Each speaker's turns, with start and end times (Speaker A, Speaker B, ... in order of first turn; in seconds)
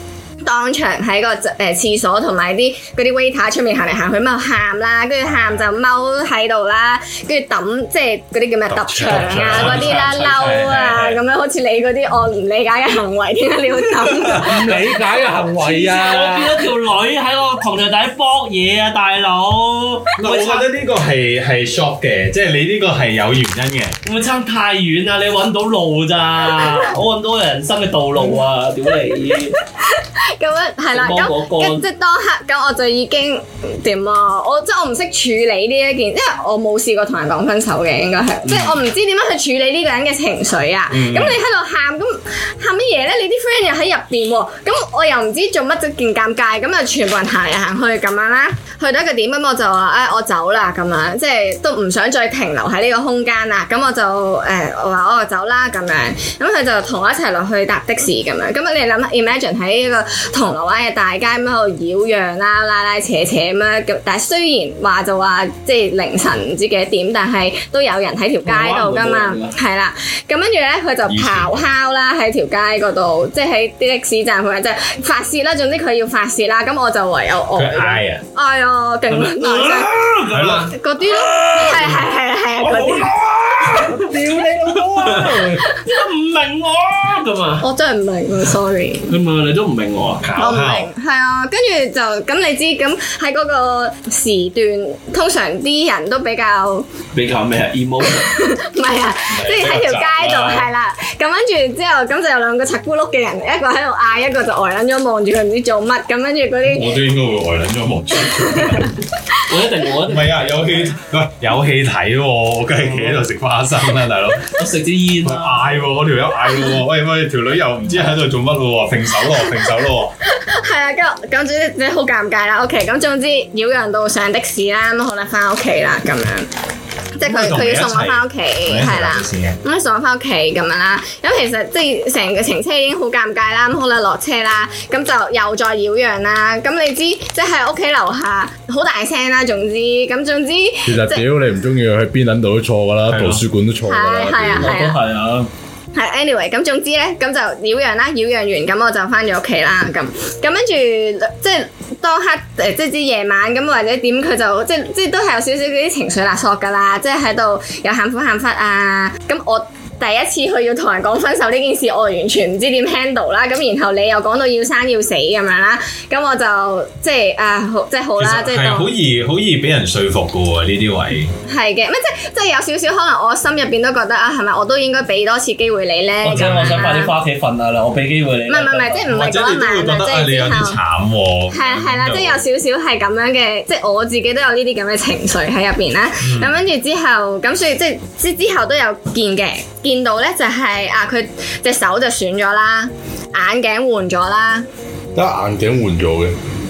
Speaker A: 0.4-14.6, 29.8-79.9, 80.7-83.1, 85.6-86.0, 87.6-89.2, 90.4-96.9, 98.0-106.9, 108.5-109.5, 120.3-126.5, 127.2-141.2, 143.8-145.0, 145.9-168.9, 171.5-177.1, 178.5-180.8, 181.5-194.7
Speaker B: 5.3-5.6, 8.7-11.2, 20.2-24.0, 40.9-41.4, 71.1-71.6, 77.5-78.2, 80.3-80.7, 90.2-90.9, 99.3-100.7, 106.6-109.0, 110.0-114.5, 115.2-120.1, 127.2-129.6, 143.1-143.4, 168.2-171.3, 176.3-177.1, 179.1-182.4, 186.2-186.6
Speaker C: 9.0-10.0, 14.4-14.9, 15.6-20.6, 24.0-29.5, 30.9-31.8, 68.4-69.6, 79.1-82.1, 82.6-87.6, 89.1-90.3, 97.1-98.3, 109.5-110.9, 112.8-113.2, 114.5-115.8, 144.6-145.5, 176.2-179.0
Speaker D: 14.4-16.6, 83.6-85.6, 140.8-144.7, 195.1-196.3